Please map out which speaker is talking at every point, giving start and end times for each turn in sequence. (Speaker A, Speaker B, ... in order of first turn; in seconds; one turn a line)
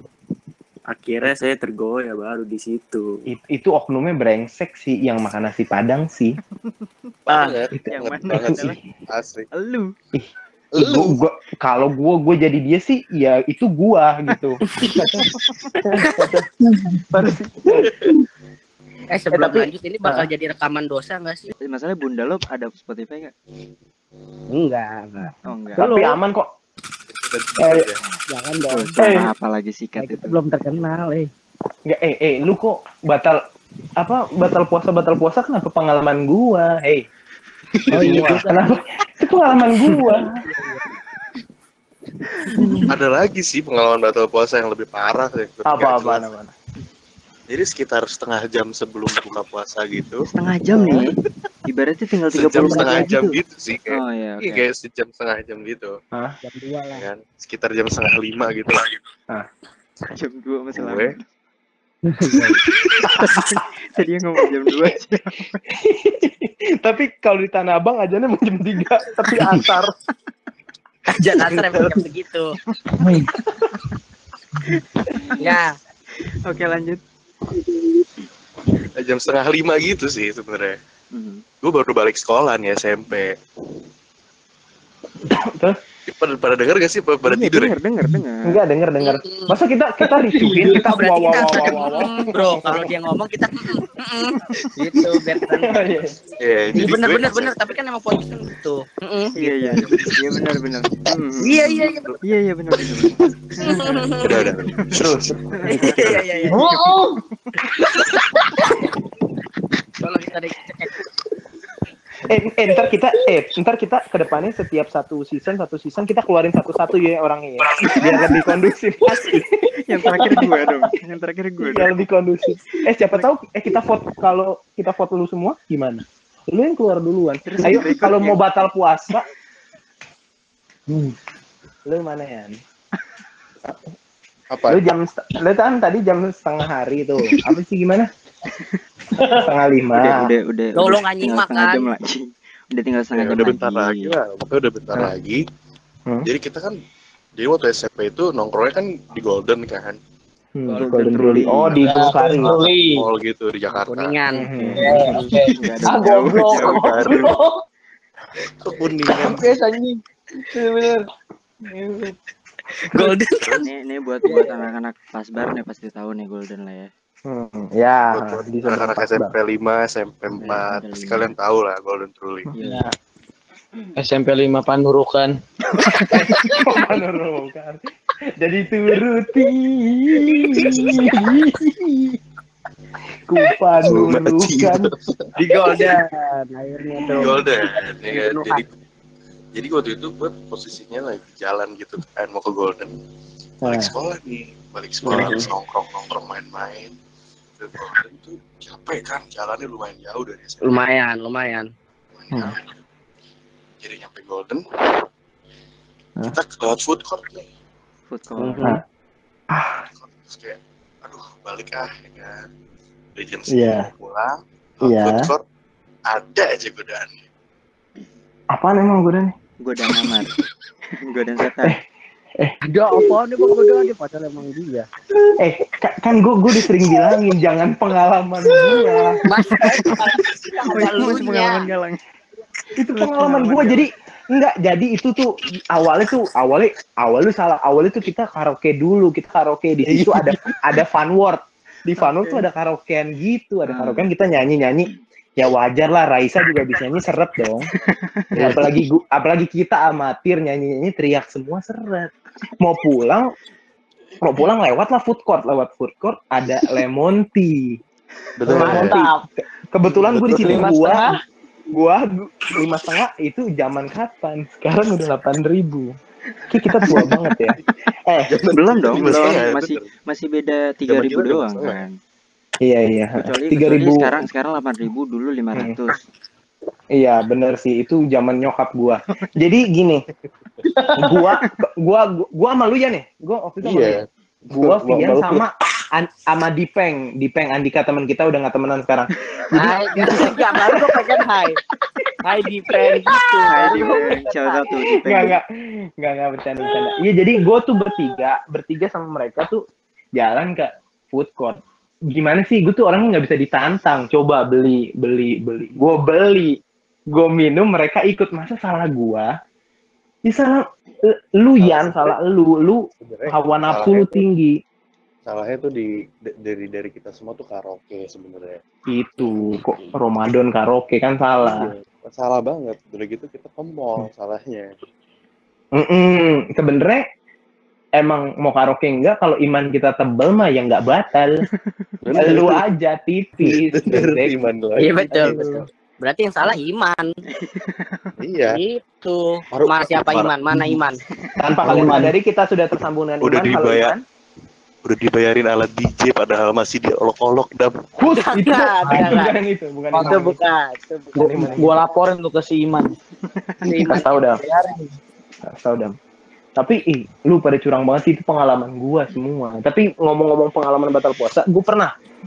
Speaker A: 0.9-3.0
Speaker B: 3.3-6.4
Speaker C: 6.6-7.1
Speaker D: 7.3-9.5
Speaker B: 7.7-8.8
Speaker C: 7.9-8.8
Speaker C: 9.5-9.9
Speaker B: 10.1-15.3
Speaker D: 10.7-11.2
Speaker B: 15.8-16.4
Speaker E: 16.0-16.3
Speaker F: 16.8-17.1
Speaker B: 17.1-18.1
Speaker E: 19.1-21.5
Speaker B: 19.3-20.3
Speaker C: 21.6-23.3
Speaker E: 24.5-26.2
Speaker C: 25.4-25.9
Speaker B: 25.8-26.5
Speaker D: 27.1-28.0
Speaker B: 27.6-27.9
Speaker E: 28.3-29.0
Speaker C: 28.7-30.4
Speaker B: 29.0-29.3
Speaker E: 30.0-31.3
Speaker B: 31.9-33.4
Speaker B: 34.0-37.1
Speaker D: 37.8-38.4
Speaker B: 37.9-40.4
Speaker E: 37.9-38.8
Speaker E: 40.1-40.8
Speaker B: 42.6-42.8
Speaker D: 42.9-46.3
Speaker B: 45.7-46.5
Speaker D: 47.5-50.3
Speaker C: 50.2-51.1
Speaker B: 50.7-51.1
Speaker C: 51.7-53.4
Speaker D: 52.3-56.0
Speaker E: 52.7-53.1
Speaker C: 53.9-54.7
Speaker E: 56.4-57.1
Speaker D: 56.9-59.0
Speaker C: 60.1-61.2
Speaker D: 60.8-61.1
Speaker B: 62.3-63.6
Speaker C: 63.1-65.6
Speaker B: 65.7-69.9
Speaker E: 71.1-72.5
Speaker C: 74.8-75.5
Speaker E: 75.4-75.7
Speaker C: 76.2-77.0
Speaker D: 79.0-80.8
Speaker C: 81.1-81.4
Speaker D: 81.6-83.4
Speaker B: 85.3-85.8
Speaker D: 86.1-87.7
Speaker C: 87.2-88.6
Speaker B: 88.5-92.9
Speaker E: 89.0-89.5
Speaker F: 90.1-91.4
Speaker E: 90.8-95.9
Speaker B: 95.4-96.2
Speaker D: 96.4-97.6
Speaker E: 96.8-99.4
Speaker C: 99.4-104.9
Speaker D: 99.7-102.2
Speaker E: 101.4-102.2
Speaker D: 102.8-106.2
Speaker E: 103.6-104.5
Speaker B: 105.0-106.5
Speaker C: 105.6-106.2
Speaker E: 105.7-106.9
Speaker F: 106.5-107.2
Speaker E: 110.0-111.0
Speaker B: 112.2-120.7
Speaker C: 117.8-118.2
Speaker C: 119.9-122.1
Speaker B: 121.6-129.3
Speaker C: 122.7-123.3
Speaker C: 127.5-128.5
Speaker B: 131.9-132.6
Speaker D: 134.5-134.8
Speaker B: 134.7-138.1
Speaker C: 138.5-138.8
Speaker F: 139.2-139.5
Speaker B: 139.3-140.3
Speaker C: 139.9-144.1
Speaker E: 140.8-141.9
Speaker D: 143.2-145.4
Speaker D: 146.2-146.8
Speaker D: 147.4-150.0
Speaker B: 150.6-152.6
Speaker A: 150.7-152.0
Speaker F: 151.8-153.1
Speaker D: 152.9-154.2
Speaker E: 153.9-154.5
Speaker B: 154.3-155.2
Speaker C: 154.5-157.3
Speaker F: 154.8-157.6
Speaker D: 156.0-157.4
Speaker D: 158.6-159.5
Speaker F: 159.1-161.1
Speaker F: 161.7-162.2
Speaker E: 162.9-163.7
Speaker D: 163.4-163.7
Speaker C: 163.6-166.9
Speaker F: 164.3-164.6
Speaker B: 167.3-169.3
Speaker D: 168.1-172.5
Speaker C: 170.4-171.3
Speaker C: 172.6-172.9
Speaker F: 172.6-172.9
Speaker F: 174.0-175.4
Speaker C: 175.7-176.6
Speaker B: 176.5-177.8
Speaker B: 178.4-181.8
Speaker B: 183.3-184.9
Speaker D: 183.8-185.3
Speaker E: 185.4-188.6
Speaker D: 187.1-188.7
Speaker D: 189.6-192.9
Speaker B: 193.6-193.9
Speaker D: 193.6-196.9
Speaker B: 195.1-195.4
Speaker D: 197.6-200.8
Speaker E: 200.6-201.7
Speaker D: 202.2-202.6
Speaker D: 203.8-205.1
Speaker D: 206.3-207.5
Speaker C: 208.1-208.6
Speaker E: 208.4-208.8
Speaker B: 209.5-209.8
Speaker D: 209.9-212.5
Speaker D: 213.2-215.4
Speaker B: 213.5-213.9
Speaker B: 214.8-215.3
Speaker D: 216.1-217.1
Speaker B: 218.5-219.3
Speaker C: 219.6-220.3
Speaker C: 221.1-221.8
Speaker E: 222.7-224.9
Speaker B: 225.4-229.9
Speaker E: 229.3-231.7
Speaker C: 229.5-229.9
Speaker C: 230.7-232.0
Speaker B: 232.8-247.7
Speaker C: 232.9-233.9
Speaker D: 239.9-240.6
Speaker C: 242.0-242.5
Speaker C: 243.7-244.1
Speaker C: 247.8-248.3
Speaker D: 248.3-248.7
Speaker B: 248.4-253.3
Speaker B: 254.2-257.8
Speaker D: 258.4-259.0
Speaker B: 258.5-259.1
Speaker F: 258.5-259.2
Speaker B: 259.7-261.1
Speaker D: 259.9-260.8
Speaker F: 260.3-261.2
Speaker B: 261.7-265.9
Speaker B: 266.5-268.3
Speaker D: 266.9-267.2
Speaker D: 268.3-269.9
Speaker C: 268.5-271.9
Speaker D: 270.9-271.9
Speaker B: 272.6-274.1
Speaker C: 273.2-276.0
Speaker B: 276.9-280.0
Speaker F: 280.7-281.2
Speaker B: 281.0-284.0
Speaker D: 283.6-285.4
Speaker B: 284.5-291.0
Speaker E: 289.5-291.6
Speaker E: 292.2-294.7
Speaker C: 293.5-295.4
Speaker B: 295.0-295.4
Speaker B: 296.0-299.6
Speaker B: 300.1-306.6
Speaker B: 307.1-309.3
Speaker B: 310.3-314.6
Speaker D: 311.6-312.1
Speaker D: 313.0-314.2
Speaker D: 315.3-318.6
Speaker B: 318.9-321.7
Speaker D: 321.4-324.7
Speaker B: 325.7-327.0
Speaker B: 328.0-331.4
Speaker D: 332.0-332.7
Speaker B: 332.1-334.4
Speaker D: 333.4-335.5
Speaker E: 334.8-337.1
Speaker B: 335.1-335.6
Speaker C: 337.3-338.1
Speaker D: 338.2-338.6
Speaker E: 338.5-341.0
Speaker D: 339.5-340.4
Speaker B: 341.4-344.0
Speaker F: 341.6-342.1
Speaker D: 343.2-343.9
Speaker D: 344.9-347.9
Speaker B: 348.0-350.4
Speaker E: 348.1-349.4
Speaker F: 348.9-349.3
Speaker F: 349.9-350.4
Speaker E: 350.0-351.8
Speaker B: 351.2-351.8
Speaker F: 351.2-352.9
Speaker C: 353.3-353.6
Speaker F: 353.6-354.9
Speaker E: 353.7-354.3
Speaker B: 353.8-354.4
Speaker B: 355.5-356.0
Speaker B: 356.6-361.9